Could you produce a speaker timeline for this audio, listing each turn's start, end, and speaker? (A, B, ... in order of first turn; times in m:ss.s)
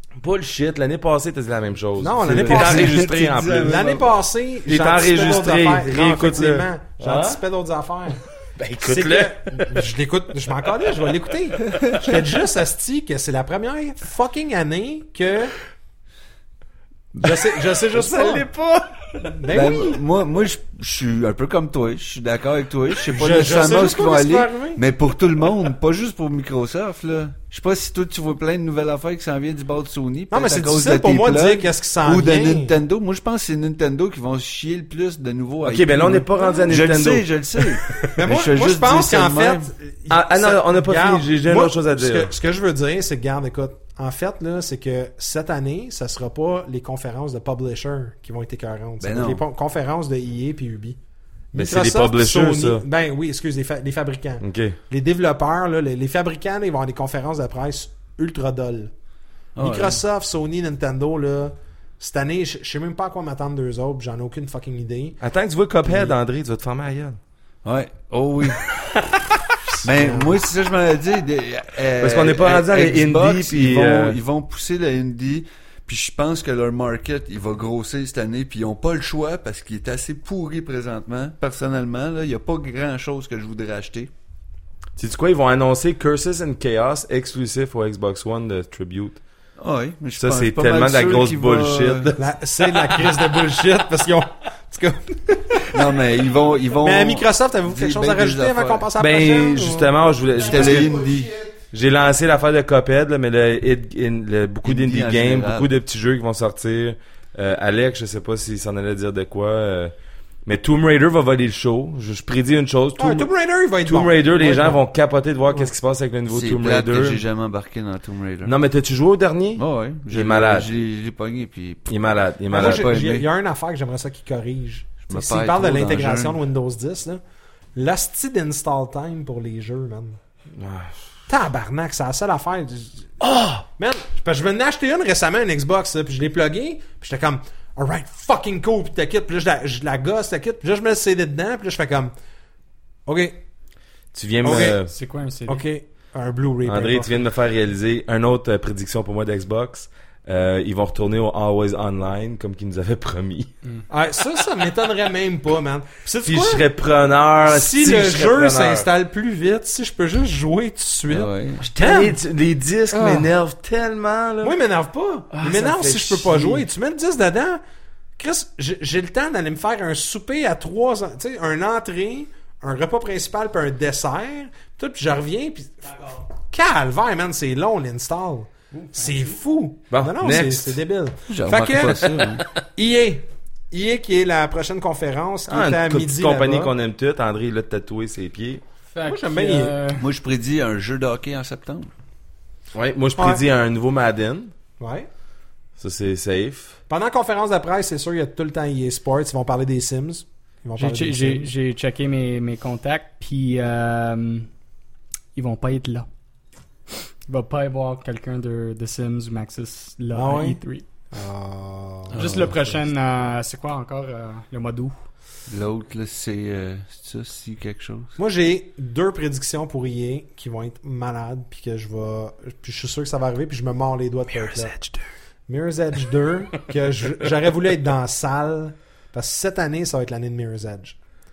0:00.2-0:04.0 A
0:02.0-0:08.2 B
0:02.4-0:04.0 C
0:04.7-0:07.4 A
0:08.6-0:09.8 A
0:08.8-0:15.6 B
0:17.2-0:18.5 B
0:17.9-0:19.4 A
0:19.3-0:20.0 B
0:19.5-0:39.7 C
0:23.1-0:24.8 B
0:30.3-0:32.8 B
0:35.6-0:38.0 A
0:36.4-0:36.7 B
0:38.1-0:51.0 B
0:40.1-0:42.3 A
0:49.0-0:49.4 C
0:51.5-0:58.9 B
0:51.6-0:52.8 A
0:54.4-0:54.8 A
0:59.6-1:00.0 C
0:59.6-1:05.2 B
1:05.2-1:07.2 A
1:07.6-1:08.8 C
1:09.8-1:24.1 C
1:09.8-1:10.4 B
1:12.0-1:14.2 A
1:25.0-1:29.2 A
1:29.6-1:32.2 C
1:30.2-1:32.2 A
1:32.2-1:35.8 B
1:35.7-1:38.9 C
1:36.8-1:39.9 B
1:39.0-1:41.1 A
1:40.4-1:41.4 C
1:41.7-1:49.9 A
1:44.6-1:45.7 C
1:50.5-1:53.3 A
1:53.0-1:54.8 B
1:53.8-1:57.2 A
1:56.3-1:58.5 C
1:58.4-2:00.7 A
1:59.6-2:01.9 C
2:01.9-2:02.9 A
2:02.5-2:07.2 B
2:02.5-2:03.3 C
2:05.1-2:06.4 C
2:07.8-2:10.2 B
2:10.6-2:11.0 A
2:11.3-2:13.1 B
2:13.2-2:13.6 A
2:13.8-2:22.1 B
2:23.1-2:23.4 B
2:24.1-2:24.9 A
2:24.4-2:24.8 B
2:24.9-2:25.6 D
2:25.5-2:27.1 B
2:26.7-2:33.5 A
2:33.9-2:36.7 B
2:36.2-2:38.9 A
2:37.4-2:42.2 B
2:41.1-2:41.6 C
2:41.8-2:44.5 A
2:42.9-2:43.3 B
2:44.4-2:47.6 B
2:45.3-2:46.6 A
2:48.2-3:02.2 B
2:59.9-3:00.8 A
3:01.3-3:02.4 C
3:02.8-3:06.7 B
3:05.5-3:08.6 A
3:08.9-3:10.0 D
3:09.0-3:09.7 B
3:10.0-3:11.9 C
3:12.7-3:14.5 A
3:13.2-3:13.4 B
3:14.8-3:15.1 B
3:15.8-3:16.8 A
3:16.9-3:21.5 B
3:20.8-3:24.5 D
3:25.4-3:26.1 D
3:27.3-3:30.8 D
3:30.1-3:32.8 B
3:32.1-3:32.6 C
3:32.2-3:35.0 D
3:35.5-3:38.2 C
3:38.2-3:44.7 B
3:45.5-3:51.0 B